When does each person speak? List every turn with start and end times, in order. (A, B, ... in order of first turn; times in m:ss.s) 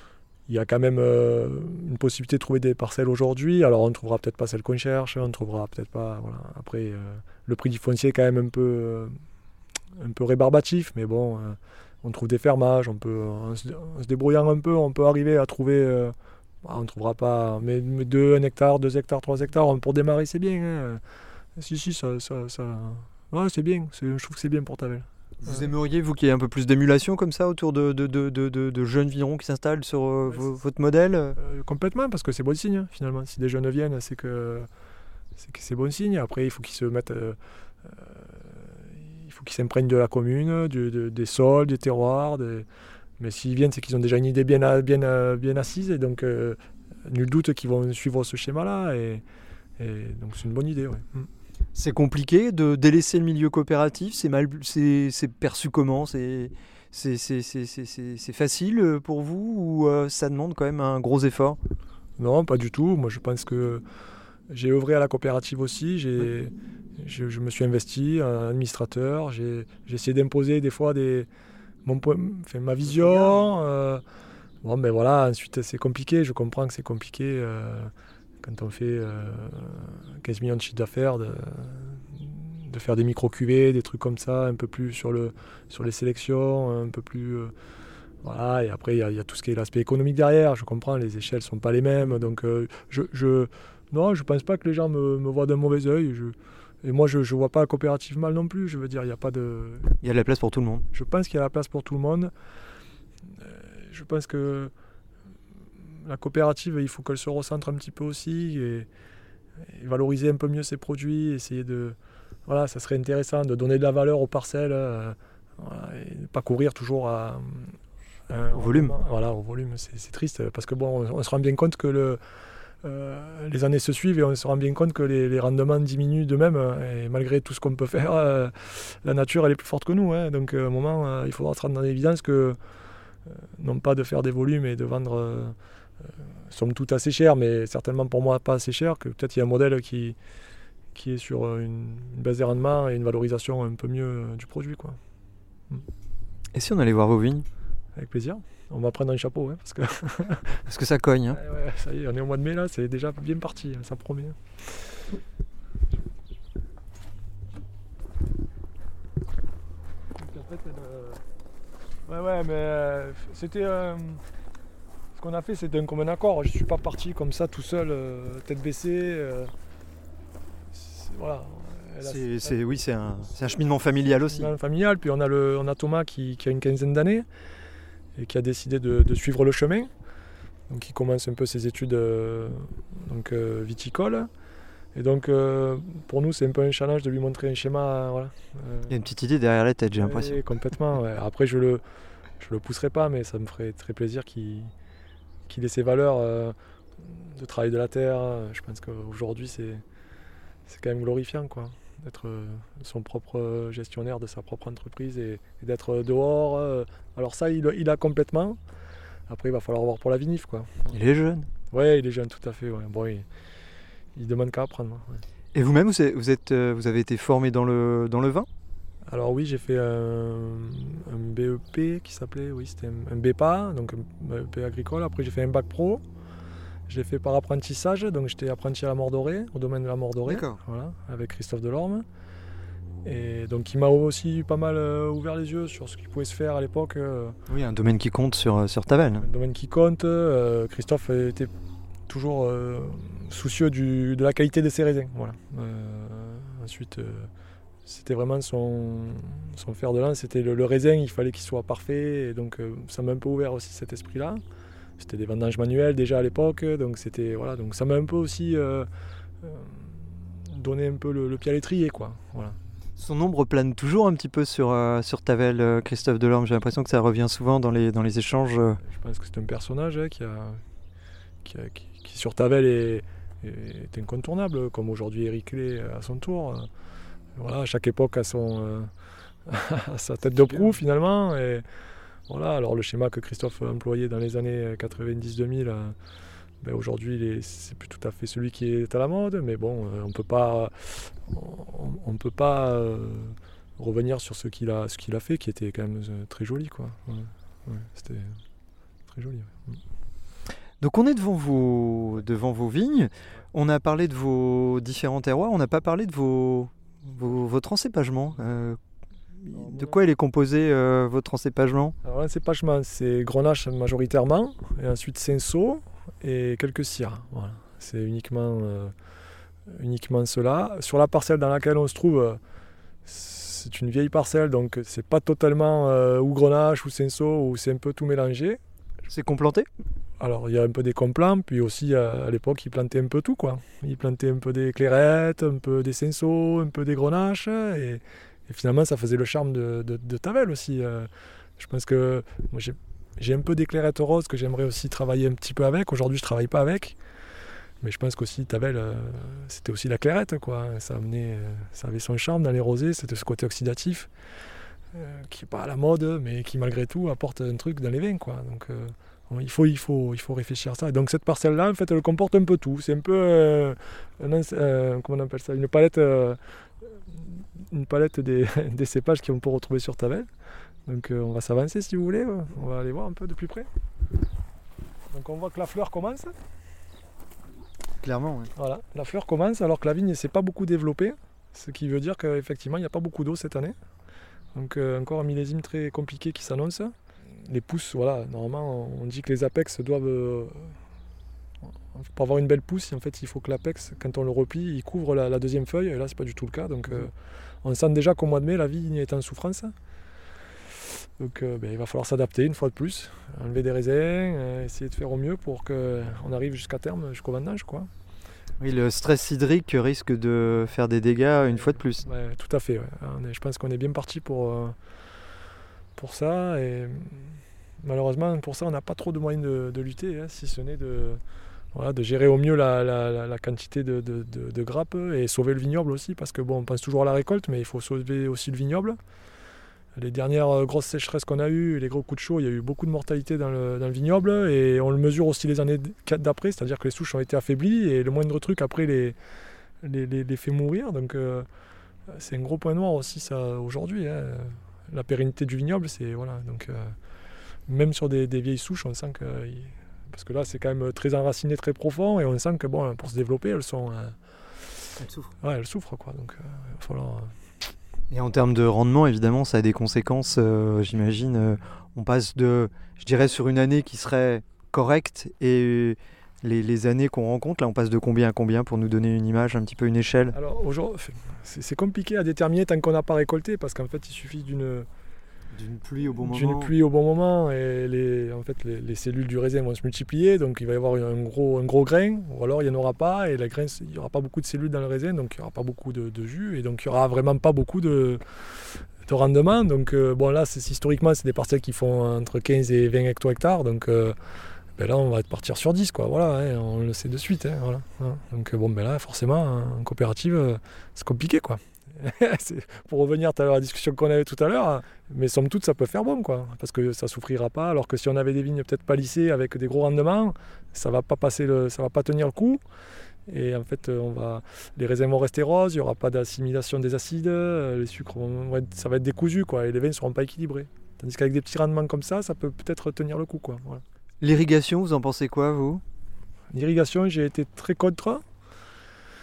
0:00.5-0:09.1 A
0:10.0-0:21.0 A
0:21.6-0:25.7 A
0:25.4-0:31.4 B
0:30.3-0:30.5 A
0:31.4-0:34.7 A
0:35.4-0:42.7 A
0:43.2-0:49.2 A
0:49.8-0:51.3 A
0:51.7-1:01.6 B
1:02.2-1:03.8 A
1:04.5-1:11.3 A
1:11.8-1:14.0 A
1:12.9-1:13.4 B
1:14.6-1:17.9 A
1:18.4-1:27.5 A
1:28.2-1:40.0 A
1:40.0-1:40.8 B
1:40.9-1:42.3 A
1:43.4-1:44.7 A
1:45.8-1:48.9 A
1:49.7-1:57.8 A
1:58.3-2:02.2 A
1:58.5-1:59.0 B
2:02.8-2:12.6 A
2:13.3-2:20.2 A
2:20.9-2:25.0 A
2:26.5-2:27.4 B
2:28.0-2:30.6 A
2:30.6-2:31.4 B
2:31.3-2:34.9 A
2:40.2-2:41.2 A
2:42.1-2:44.2 A
2:45.2-2:49.5 A
2:50.7-2:52.6 A
2:52.0-2:54.5 B
2:54.0-2:57.2 A
2:58.2-2:59.9 A
3:00.7-3:04.3 A
3:04.9-3:09.0 A
3:08.9-3:10.4 B
3:10.0-3:11.8 A
3:12.4-3:14.7 A
3:15.5-3:19.8 A
3:20.7-3:28.6 A
3:29.3-3:31.0 A
3:30.9-3:31.5 B
3:31.7-3:33.2 A
3:34.2-3:35.2 A
3:35.5-3:38.5 B
3:39.1-3:46.0 A
3:46.9-3:52.0 A
3:50.2-3:50.6 B
3:53.0-3:57.4 A
3:57.5-3:59.3 B
3:59.2-4:01.5 A
4:02.1-4:07.3 A
4:07.8-4:14.4 A
4:15.0-4:18.9 A
4:19.4-4:22.6 A
4:23.0-4:28.8 B
4:28.8-4:30.6 A
4:31.4-4:36.7 A
4:37.4-4:38.9 A
4:39.4-4:41.6 A
4:40.3-4:40.7 B
4:42.3-4:45.9 A
4:46.6-4:58.4 A
4:59.1-4:59.8 A
5:00.8-5:08.8 B
5:09.4-5:12.0 B
5:09.5-5:10.0 A
5:12.0-5:18.9 A
5:19.7-5:22.4 A
5:23.0-5:28.6 A
5:29.1-5:29.7 B
5:30.2-5:47.0 A
5:47.8-5:54.1 A
5:54.9-6:10.3 A
6:10.8-6:13.7 A
6:15.1-6:16.3 A
6:18.0-6:18.5 B
6:18.6-6:23.7 A
6:24.5-6:30.8 A
6:31.9-6:39.7 A
6:40.9-6:47.9 A
6:48.6-6:52.0 B
6:51.6-6:54.8 A
6:56.0-7:01.2 A
7:01.7-7:09.0 A
7:10.0-7:19.2 A
7:19.8-7:21.5 A
7:22.1-7:27.0 A
7:27.7-7:34.2 A
7:35.0-7:35.3 B
7:35.4-7:37.3 A
7:38.1-7:50.4 B
7:50.3-7:54.9 A
7:55.5-7:56.7 B
7:56.2-8:14.2 A
8:14.8-8:32.6 A
8:33.3-8:43.8 A
8:44.2-8:45.8 B
8:46.5-8:48.2 A